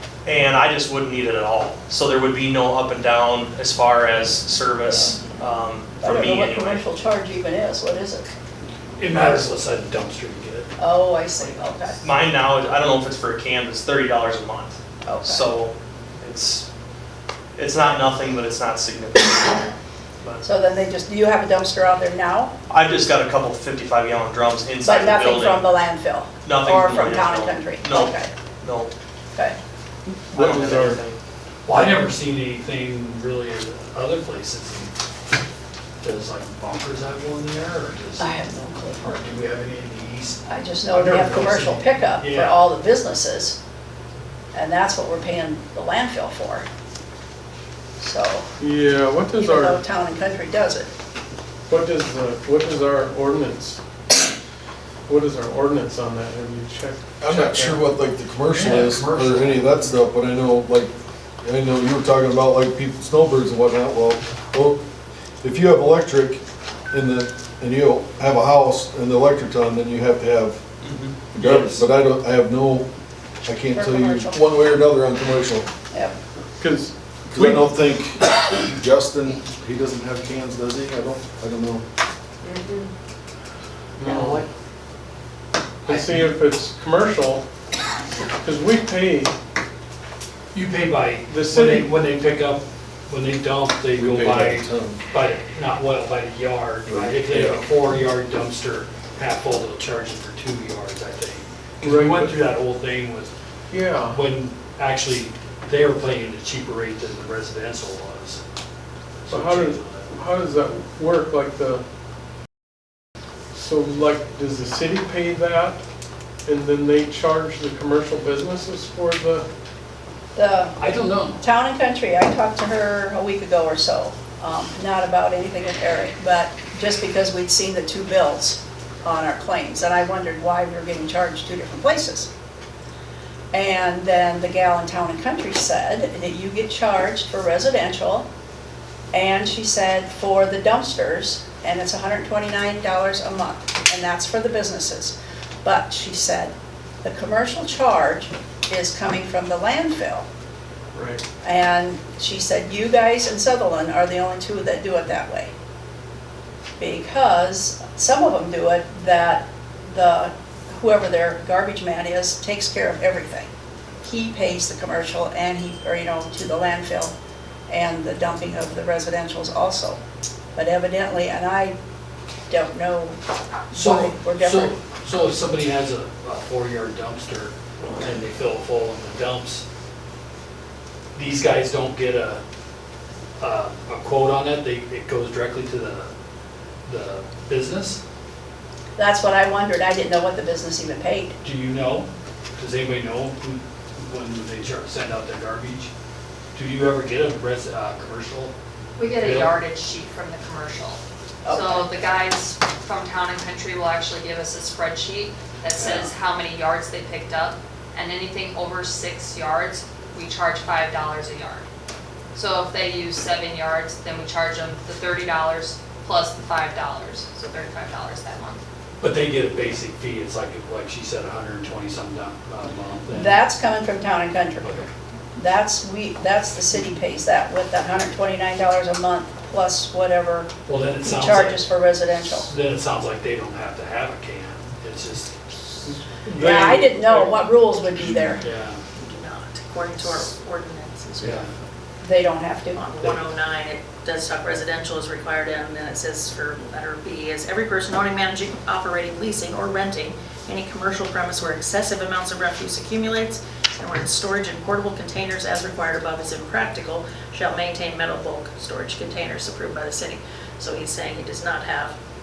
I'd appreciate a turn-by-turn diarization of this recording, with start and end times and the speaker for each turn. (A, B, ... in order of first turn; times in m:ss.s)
0:00.2-0:06.8 A
0:06.0-0:08.3 B
0:09.0-0:10.7 C
0:10.8-0:12.0 B
0:12.0-0:16.6 A
0:15.0-0:15.5 B
0:17.6-0:20.4 A
0:17.8-0:18.1 B
0:20.4-0:22.5 B
0:22.7-0:25.6 A
0:24.8-0:28.3 B
0:26.4-0:28.9 A
0:30.1-0:31.0 D
0:30.3-0:31.2 A
0:31.6-0:34.9 C
0:36.0-0:38.3 C
0:38.2-0:39.2 B
0:39.0-0:42.6 C
0:40.5-0:43.6 B
0:44.5-0:46.6 B
0:48.0-0:48.5 B
0:48.6-0:49.8 D
0:49.3-0:50.9 B
0:51.7-0:53.8 D
0:55.1-0:57.8 D
0:57.2-1:00.9 E
0:57.3-0:57.8 C
0:58.4-1:00.0 C
1:01.4-1:04.8 E
1:05.4-1:10.6 E
1:10.8-1:11.1 A
1:11.3-1:12.9 E
1:11.4-1:11.9 C
1:13.4-1:15.7 E
1:13.7-1:14.4 B
1:16.6-1:17.8 D
1:17.3-1:21.8 E
1:24.0-1:24.4 D
1:25.8-1:26.2 C
1:25.8-1:27.4 D
1:28.4-1:29.3 D
1:30.5-1:43.3 C
1:31.2-1:32.0 D
1:33.9-1:35.0 E
1:36.9-1:37.6 E
1:41.8-1:42.4 D
1:43.7-1:44.2 D
1:44.0-1:48.4 C
1:49.2-1:50.1 C
1:49.3-1:51.8 D
1:53.5-1:55.8 D
1:56.4-1:59.4 D
2:00.3-2:00.7 B
2:00.8-2:01.4 C
2:01.4-2:12.3 B
2:13.5-2:18.2 B
2:19.1-2:30.2 B
2:30.9-2:31.2 D
2:31.4-2:35.5 B
2:36.8-2:43.5 B
2:44.0-2:47.1 B
2:47.7-2:50.0 B
2:50.5-2:51.8 B
2:52.5-2:53.2 B
2:53.7-2:54.7 B
2:53.7-2:59.6 C
3:01.1-3:02.4 C
3:03.4-3:06.1 C
3:06.8-3:08.0 C
3:09.0-3:11.4 B
3:11.4-3:15.9 C
3:16.5-3:18.5 C
3:19.0-3:31.6 F
3:19.2-3:19.5 C
3:21.4-3:21.9 B
3:25.7-3:26.1 C
3:32.3-3:38.6 F
3:39.0-3:43.4 C
3:43.1-3:44.8 B
3:44.6-3:44.9 C
3:45.4-3:50.5 B
3:50.6-3:51.7 C
3:51.0-3:52.5 B
3:52.3-3:55.3 C
3:55.8-3:57.4 D
3:56.4-3:58.4 B
3:58.4-3:58.8 C
3:58.9-4:01.5 G
4:01.2-4:01.5 C
4:02.0-4:02.8 B
4:02.7-4:22.0 G